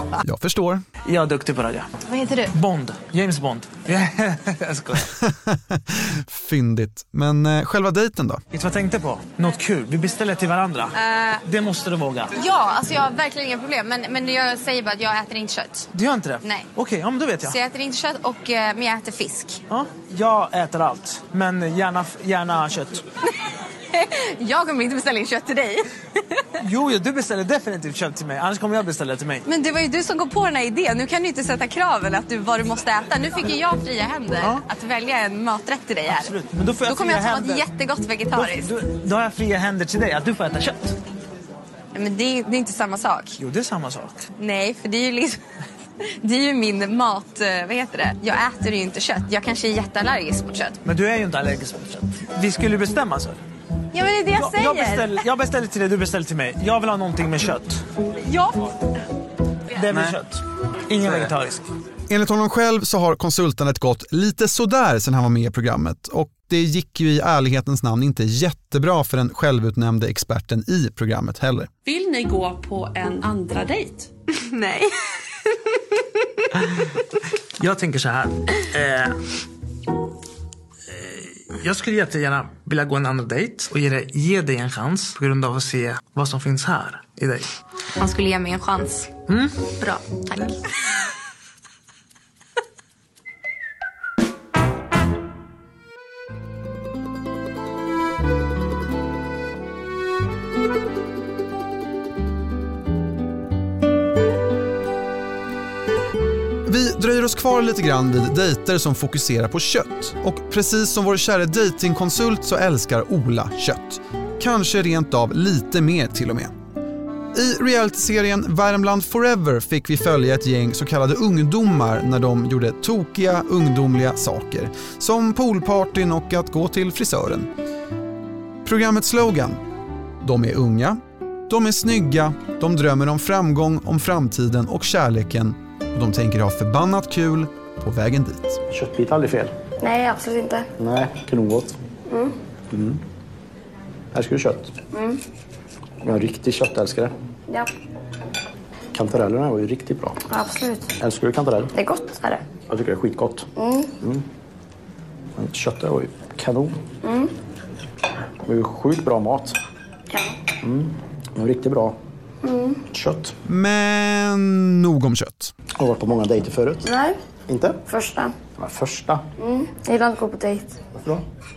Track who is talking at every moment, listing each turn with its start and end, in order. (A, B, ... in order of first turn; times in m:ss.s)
0:00.2-0:00.8 A
0:01.0-0:01.9 B
0:02.1-0:02.4 C
0:02.5-0:05.1 B
0:05.2-0:08.4 A
0:08.5-0:12.3 B
0:11.0-0:11.4 C
0:12.4-0:15.9 C
0:15.9-0:17.6 B
0:16.4-0:16.7 C
0:17.4-0:19.6 C
0:19.7-0:23.0 B
0:23.9-0:26.4 C
0:26.6-0:29.4 B
0:29.5-0:38.7 C
0:34.4-0:34.6 B
0:36.1-0:37.7 B
0:38.3-0:41.0 B
0:41.9-0:43.4 C
0:43.4-0:44.2 B
0:44.4-0:45.4 C
0:46.2-0:50.8 C
0:50.8-0:53.4 B
0:53.9-0:55.2 C
0:54.3-0:57.8 B
0:58.2-0:58.7 C
0:59.7-1:01.7 B
1:02.1-1:11.7 A
1:11.8-1:14.1 D
1:14.4-1:14.9 C
1:17.6-1:19.2 B
1:20.9-1:27.5 B
1:28.0-1:29.1 C
1:29.3-1:29.5 B
1:29.8-1:30.6 C
1:46.6-1:56.5 A
1:57.3-2:07.5 A
2:08.6-2:09.6 A
2:10.2-2:18.6 A
2:18.7-2:19.5 E
2:19.8-2:20.7 F
2:20.8-2:21.8 E
2:22.7-2:23.0 E
2:24.1-2:24.7 E
2:26.0-2:27.1 E
2:28.9-2:30.2 E
2:30.3-2:30.9 F
2:31.0-2:31.7 E
2:31.8-2:32.4 F
2:32.7-2:33.5 E
2:33.6-2:33.9 F
2:35.4-2:36.8 E
2:37.0-2:37.3 F
2:38.4-2:39.5 E
2:40.6-2:42.0 E
2:42.4-2:42.8 F
2:42.9-2:43.3 E
2:43.5-2:45.5 A
2:45.8-2:46.9 E
2:46.9-2:47.2 F
2:47.5-2:47.8 E
2:47.9-2:48.3 F
2:48.6-2:49.2 E
2:49.4-2:50.7 F